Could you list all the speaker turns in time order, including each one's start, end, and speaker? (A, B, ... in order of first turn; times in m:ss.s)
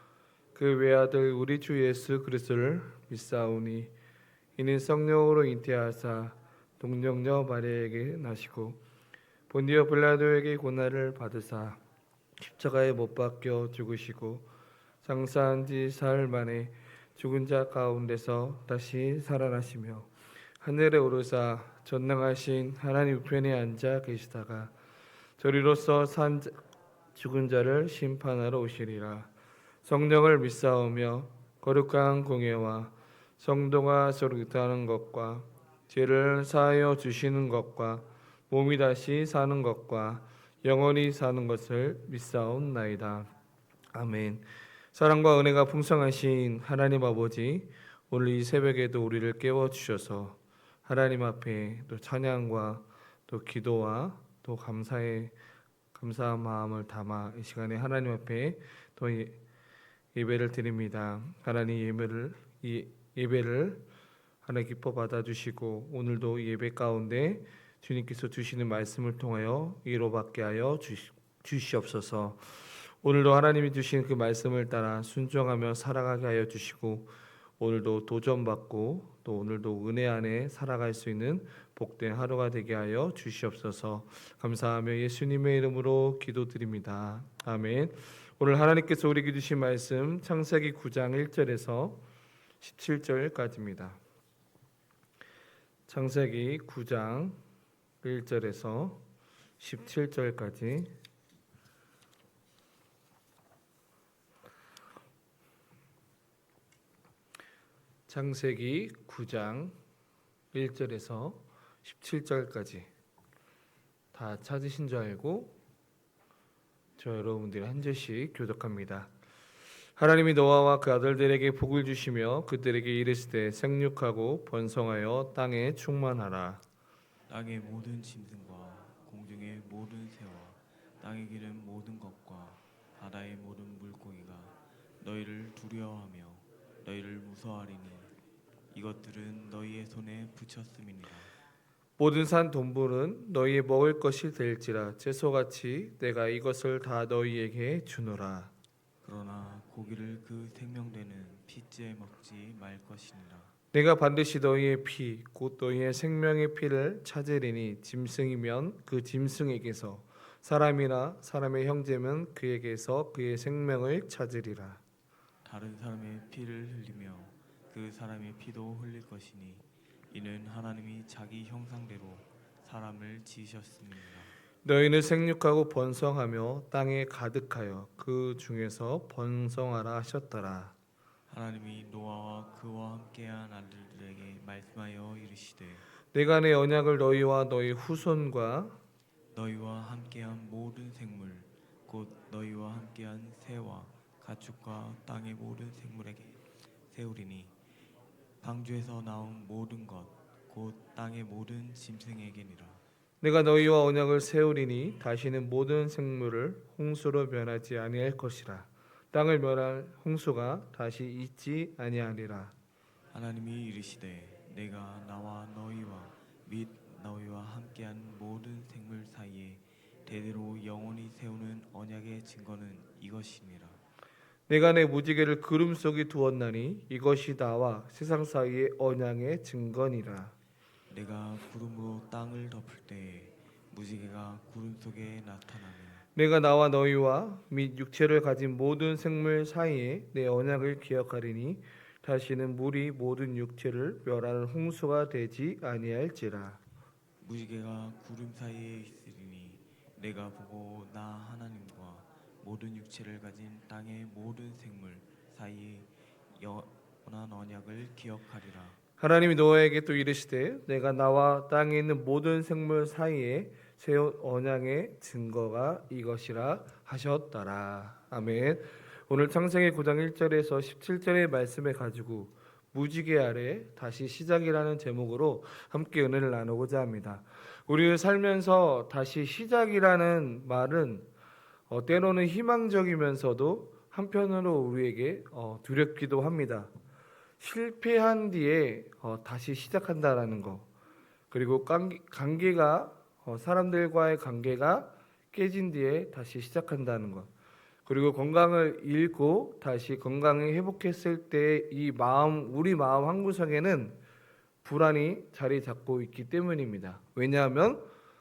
0:00.6-0:03.9 A
0:04.6-0:08.8 A
0:09.5-0:11.8 A
0:12.4-0:14.5 A
0:15.0-0:20.1 A
0:20.6-0:24.7 A
0:25.4-0:26.5 A
0:27.2-0:29.3 A
0:29.8-0:43.3 A
0:43.9-0:55.3 A
0:55.9-0:59.4 A
1:00.2-1:03.8 A
1:04.4-1:12.4 A
1:13.0-1:32.0 A
1:32.6-1:34.0 A
1:35.9-1:37.4 A
1:38.0-1:39.0 A
1:39.6-1:40.9 A
1:48.1-1:49.7 A
1:50.5-1:52.9 A
1:54.1-1:55.6 A
1:57.0-1:59.1 A
2:00.0-2:06.6 A
2:07.3-2:18.1 B
2:18.7-2:21.3 B
2:22.0-2:28.5 A
2:29.0-2:33.5 B
2:33.7-2:44.8 A
2:45.4-2:54.3 B
2:54.6-3:00.7 A
3:01.3-3:05.8 B
3:06.1-3:08.8 A
3:09.3-3:16.4 B
3:16.9-3:17.5 B
3:18.4-3:22.8 B
3:23.2-3:32.5 A
3:33.1-3:43.8 B
3:44.5-3:50.3 A
3:50.9-3:56.0 B
3:56.2-4:06.6 A
4:07.2-4:18.8 B
4:19.0-4:41.1 A
4:41.7-4:46.7 A
4:47.4-4:50.7 A
4:51.3-4:57.3 A
4:57.9-5:04.0 A
5:04.6-5:07.8 A